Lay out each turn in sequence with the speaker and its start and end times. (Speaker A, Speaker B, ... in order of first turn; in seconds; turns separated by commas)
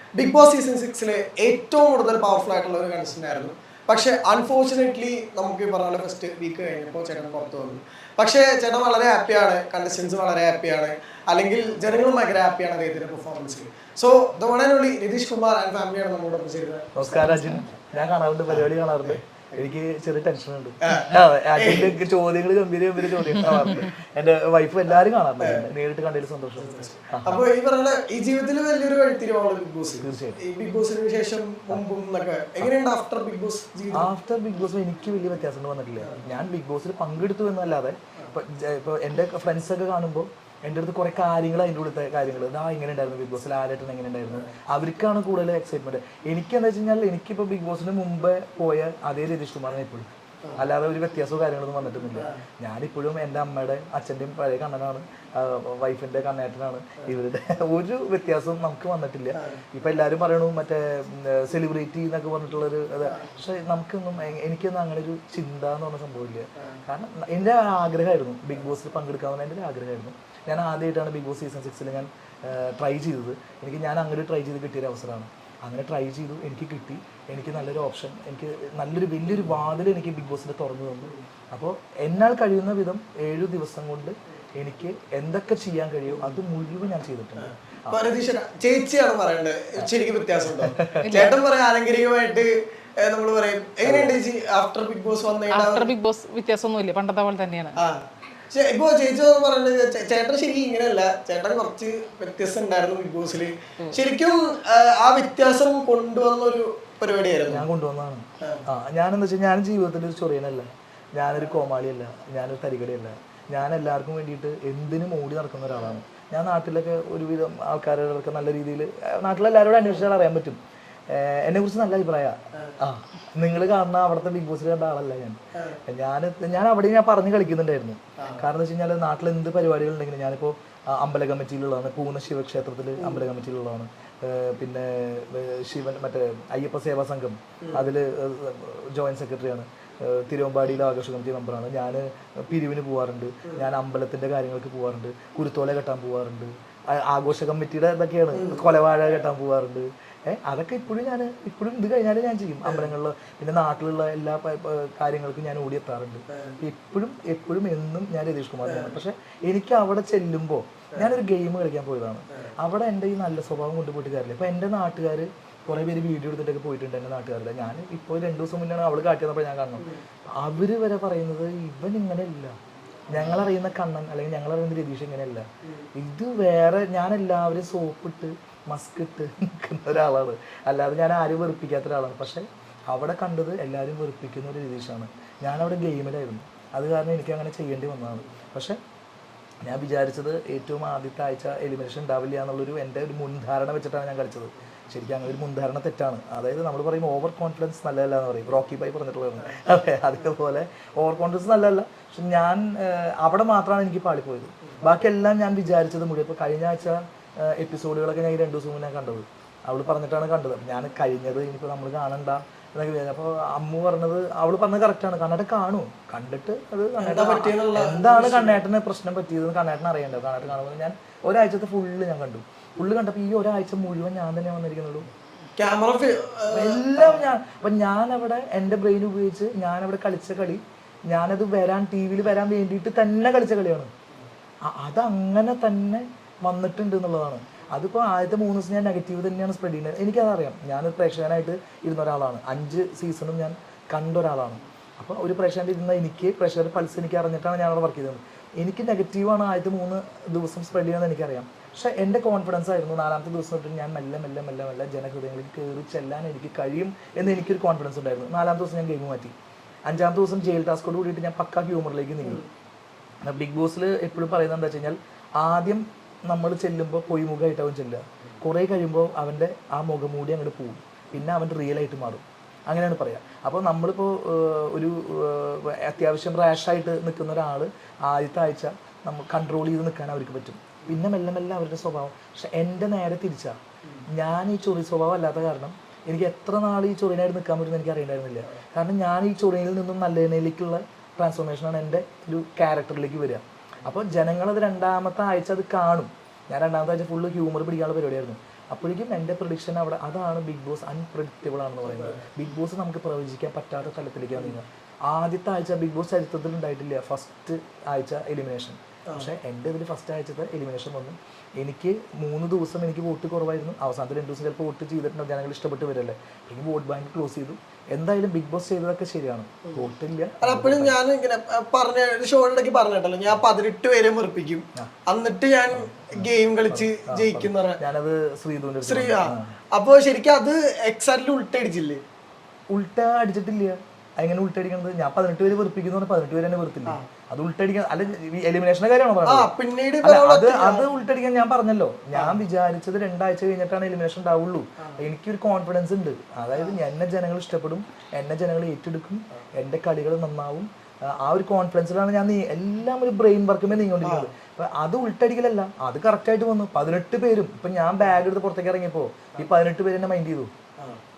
Speaker A: 0.2-17.2, Speaker B: 17.0-27.4, Speaker A: 18.5-19.7, Speaker A: 20.8-22.0, Speaker A: 23.2-23.7, Speaker A: 25.4-25.6, Speaker A: 26.6-34.1, Speaker B: 30.0-30.4, Speaker B: 33.9-88.0, Speaker A: 52.2-52.4, Speaker A: 59.4-59.6, Speaker A: 87.4-95.9, Speaker B: 90.5-91.3, Speaker C: 91.0-91.4, Speaker B: 93.8-94.2, Speaker C: 95.5-97.8, Speaker A: 97.8-107.6, Speaker B: 107.5-172.6, Speaker A: 108.4-108.7, Speaker A: 133.0-133.2, Speaker A: 148.3-148.6, Speaker A: 156.3-156.6, Speaker A: 158.7-158.9, Speaker B: 173.1-188.8, Speaker B: 189.7-225.1, Speaker A: 217.0-218.6, Speaker A: 225.6-227.2, Speaker B: 226.5-233.9, Speaker B: 234.7-259.4, Speaker B: 259.9-262.4, Speaker B: 263.2-283.6, Speaker B: 284.1-321.0, Speaker A: 320.4-327.8, Speaker B: 325.7-329.6, Speaker A: 328.8-332.0, Speaker B: 332.7-339.5, Speaker A: 339.2-340.9, Speaker B: 340.0-360.5, Speaker A: 342.1-342.4, Speaker A: 354.0-354.3